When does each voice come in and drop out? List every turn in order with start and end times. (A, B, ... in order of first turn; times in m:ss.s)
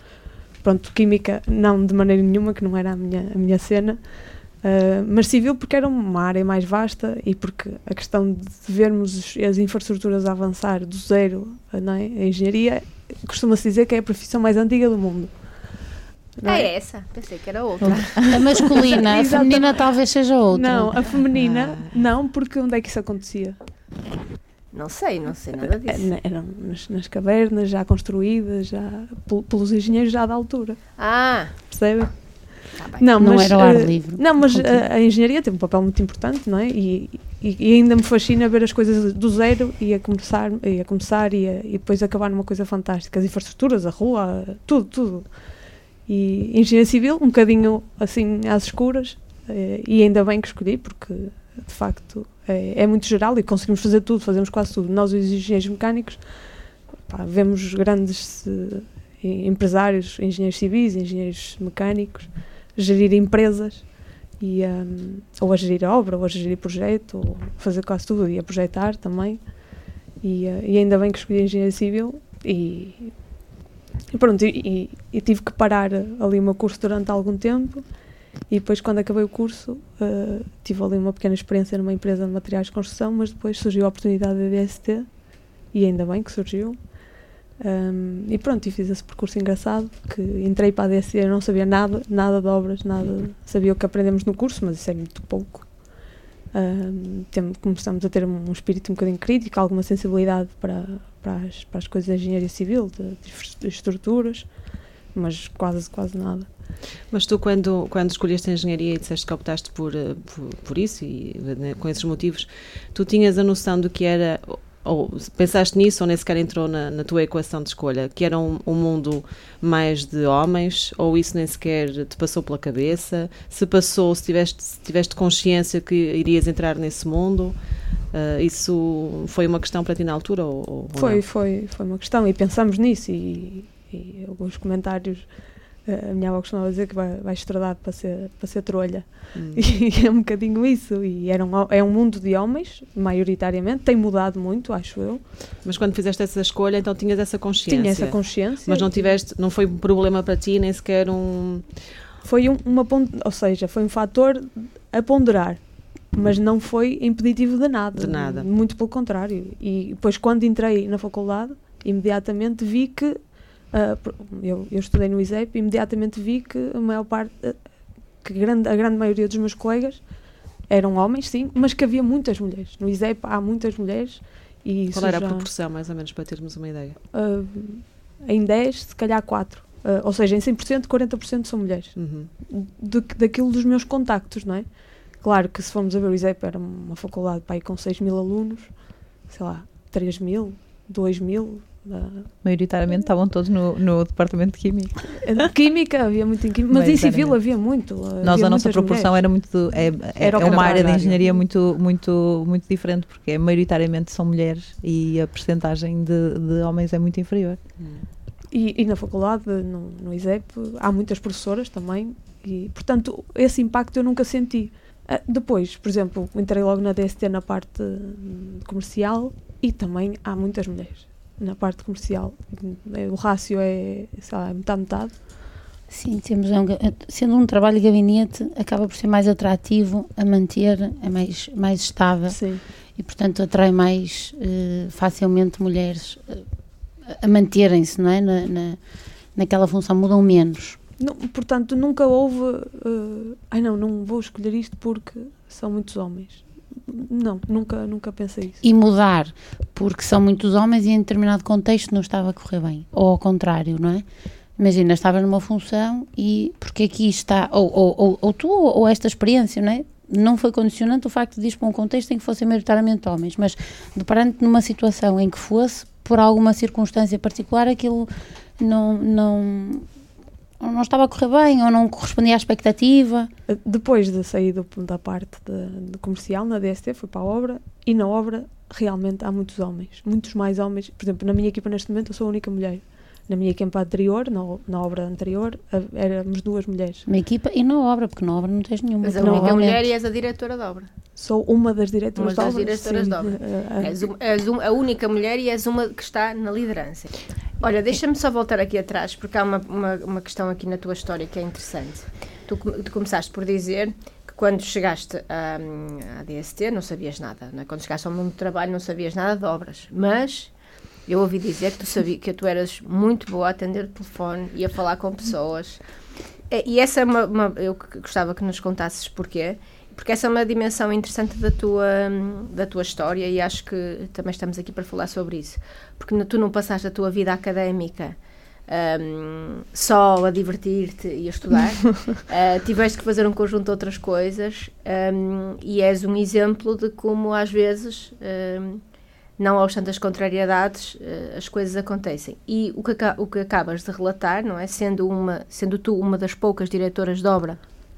0:00.6-0:15.3 A
0:16.4-0:16.7 A
0:16.4-0:18.8 B
0:17.8-0:18.3 C
0:18.2-0:21.0 D
0:18.9-0:19.8 A
0:20.5-0:23.6 A
0:21.3-0:21.9 E
0:24.7-0:26.1 B
0:25.8-0:30.8 A
0:31.0-0:31.5 B
0:31.6-0:32.4 A
0:32.7-0:33.1 B
0:33.0-0:45.3 A
0:33.2-0:34.8 D
0:46.1-0:56.2 A
0:57.0-1:03.9 A
1:04.4-1:09.4 A
1:10.2-1:13.1 A
1:14.1-1:17.8 A
1:18.5-1:25.1 A
1:25.7-1:26.8 A
1:27.6-1:35.8 A
1:36.5-1:44.5 A
1:45.1-1:46.5 A
1:47.1-2:07.5 E
2:08.1-2:11.2 E
2:11.0-2:15.3 A
2:15.8-2:25.2 A
2:19.3-2:19.6 E
2:25.6-2:31.7 E
2:27.7-2:29.1 A
2:32.2-2:47.6 A
2:37.9-2:38.5 E
2:48.2-2:50.1 A
2:50.7-2:55.5 A
2:54.9-2:57.0 E
2:57.1-3:12.3 A
3:02.0-3:02.3 E
3:12.4-3:15.2 C
3:15.2-3:19.3 A
3:16.7-3:17.5 C
3:18.2-3:27.6 C
3:20.2-3:21.2 A
3:20.4-3:21.2 E
3:27.8-3:28.0 E
3:28.5-3:45.2 A
3:45.9-3:56.4 D
3:52.3-3:52.6 A
3:57.1-3:58.8 D
3:59.3-4:00.8 D
4:01.0-4:08.6 A
4:08.6-4:14.0 D
4:14.6-4:29.9 D
4:30.6-4:33.3 D
4:33.5-4:47.0 A
4:47.0-4:49.8 D
4:49.0-4:50.9 B
4:49.2-4:49.6 A
4:51.2-4:54.0 A
4:52.2-5:10.5 B
5:11.1-5:15.8 B
5:16.5-5:28.2 B
5:28.7-5:38.8 B
5:39.4-5:47.6 B